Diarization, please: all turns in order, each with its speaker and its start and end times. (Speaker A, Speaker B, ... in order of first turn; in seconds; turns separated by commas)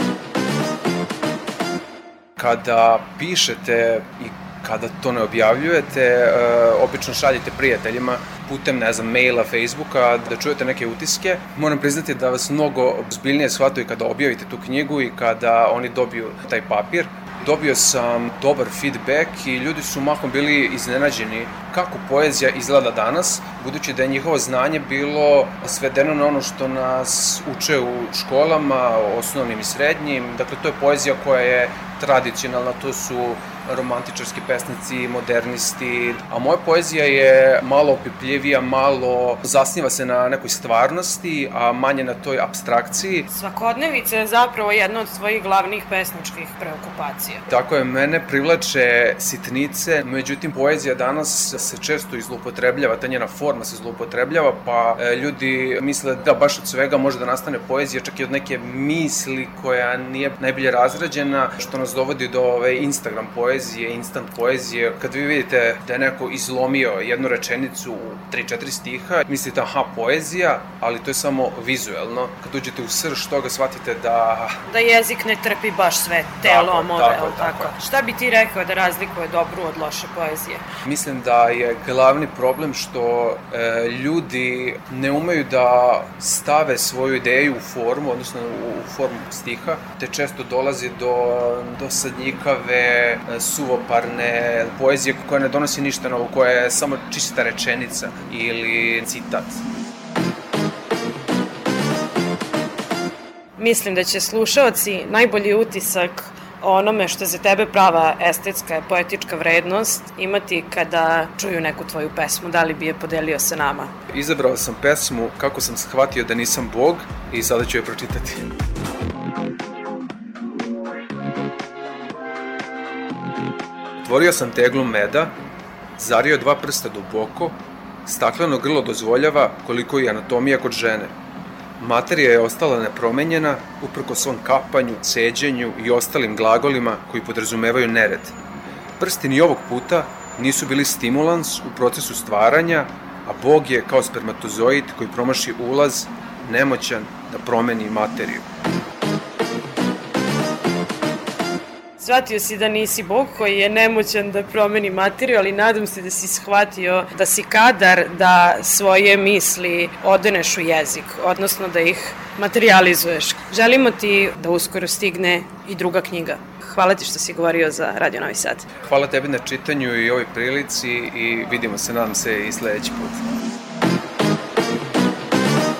Speaker A: 2.4-43.3, Speaker B: 43.3-47.5, Speaker A: 47.5-74.5, Speaker B: 74.7-80.6, Speaker A: 76.4-77.7, Speaker A: 80.9-99.6, Speaker B: 103.6-113.9, Speaker A: 114.1-118.4, Speaker A: 124.0-125.3, Speaker A: 126.0-131.1, Speaker A: 131.8-138.4, Speaker A: 139.0-148.5, Speaker B: 152.0-168.7, Speaker A: 168.8-173.2